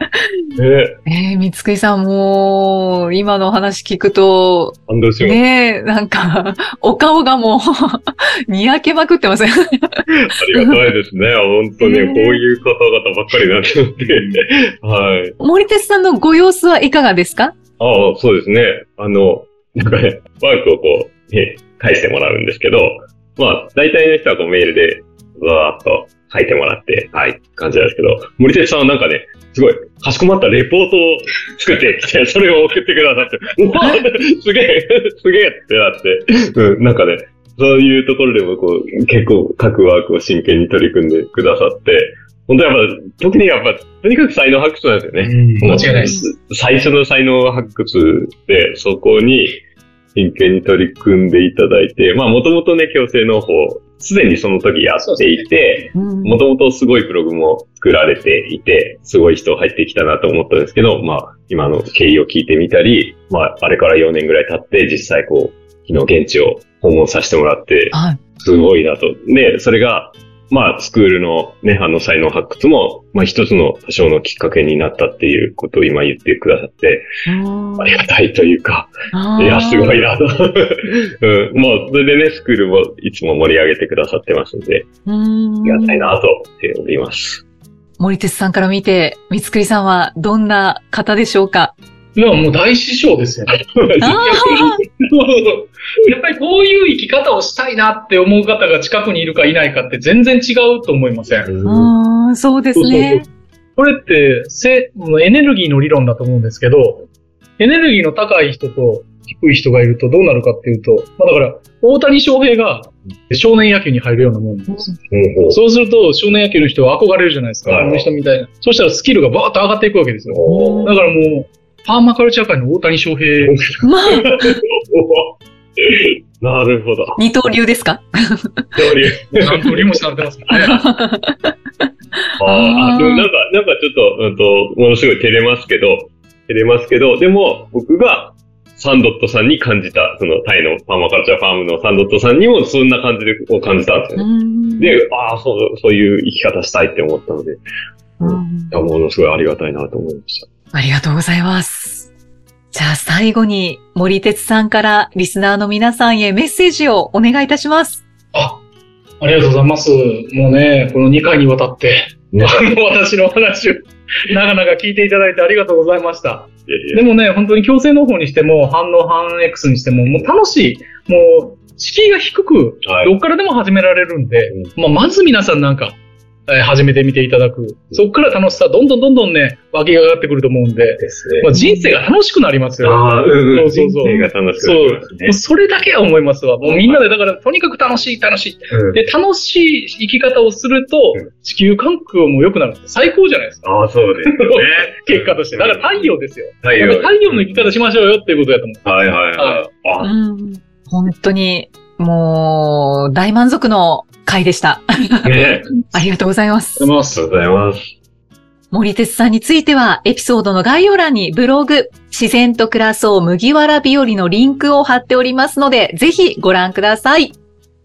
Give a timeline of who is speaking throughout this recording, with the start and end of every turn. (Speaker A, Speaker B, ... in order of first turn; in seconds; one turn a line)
Speaker A: 0.6-1.0
Speaker B: 1.1-10.8
Speaker A: 4.9-5.4
Speaker A: 10.1-15.3
Speaker B: 11.8-12.4
Speaker B: 15.4-17.5
Speaker A: 17.8-49.6
Speaker C: 45.2-46.2
Speaker B: 45.8-46.2
Speaker A: 50.1-77.1
Speaker C: 55.0-55.5
Speaker B: 55.9-56.4
Speaker B: 67.9-68.2
Speaker B: 77.2-78.0
Speaker A: 77.8-84.9
Speaker B: 79.1-80.0
Speaker B: 85.0-86.1
Speaker A: 85.6-87.4
Speaker B: 88.0-91.7
Speaker C: 92.2-93.6
Speaker A: 93.6-94.8
Speaker B: 94.0-94.8
Speaker C: 94.3-101.5
Speaker A: 101.4-101.9
Speaker B: 101.6-103.2
Speaker C: 102.7-103.2
Speaker C: 103.8-107.1
Speaker C: 107.6-114.9
Speaker B: 114.7-115.0
Speaker A: 115.1-115.6
Speaker C: 115.5-123.6
Speaker A: 117.7-118.1
Speaker A: 120.2-120.9
Speaker B: 120.5-121.0
Speaker A: 123.4-127.2
Speaker B: 123.8-124.6
Speaker B: 127.2-128.7
Speaker A: 128.7-129.9
Speaker C: 129.3-130.8
Speaker B: 130.5-131.8
Speaker A: 132.4-144.3
Speaker B: 132.4-133.3
Speaker B: 144.2-145.0
Speaker A: 144.8-147.6
Speaker B: 148.2-148.7
Speaker A: 148.2-150.5
Speaker B: 150.7-152.1
Speaker B: 152.7-158.0
Speaker C: 158.3-158.6
Speaker C: 159.2-193.7
Speaker A: 162.3-162.6
Speaker A: 166.7-167.0
Speaker A: 172.8-173.1
Speaker A: 181.0-181.5
Speaker B: 181.5-181.9
Speaker A: 182.8-185.3
Speaker B: 184.0-184.3
Speaker A: 186.6-187.1
Speaker A: 188.7-189.0
Speaker A: 193.6-197.6
Speaker C: 194.2-199.7
Speaker A: 198.8-200.1
Speaker B: 200.0-205.3
Speaker A: 205.2-205.7
Speaker B: 205.9-206.9
Speaker C: 206.8-207.2
Speaker A: 207.1-207.9
Speaker B: 208.7-217.3